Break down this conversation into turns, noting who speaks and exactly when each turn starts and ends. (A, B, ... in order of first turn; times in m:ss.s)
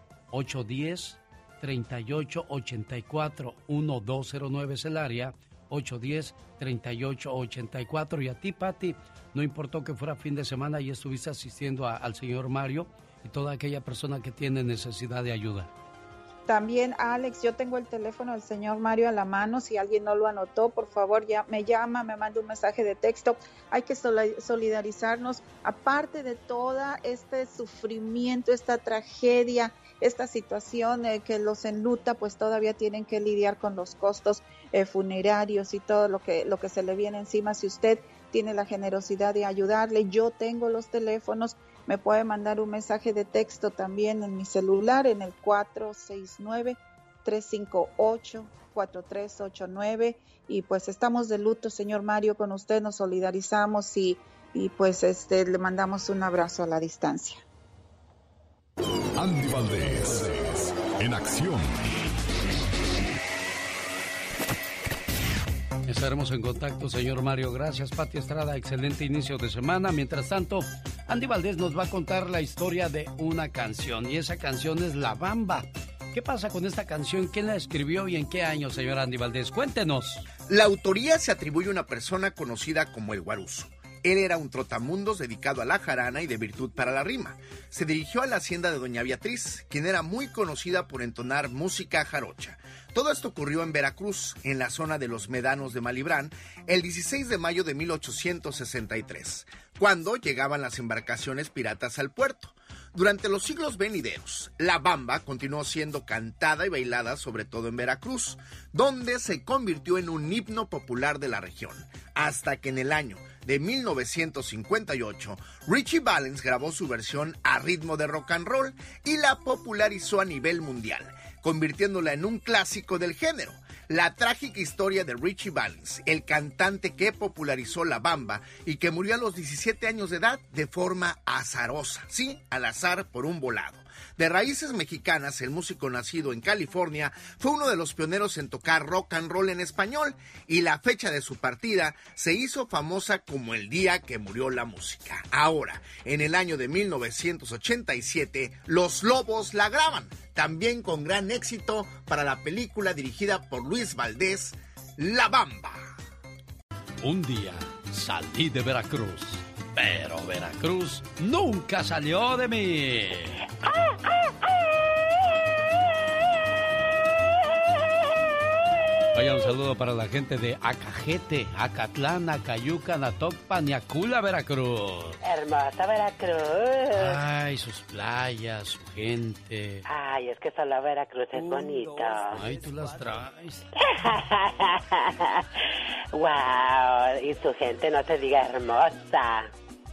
0:00.3-0:15.7 A
0:16.5-0:57.4 B
0:59.2-1:01.8 C
1:05.8-1:20.2 A
1:20.5-2:35.9 D
2:37.0-2:43.4 A
2:49.1-2:55.2 A
2:55.2-2:57.2 E
2:56.9-2:59.8 A
2:59.9-3:02.6 E
3:01.3-3:03.7 A
3:03.8-3:05.4 E
3:06.1-3:09.5 E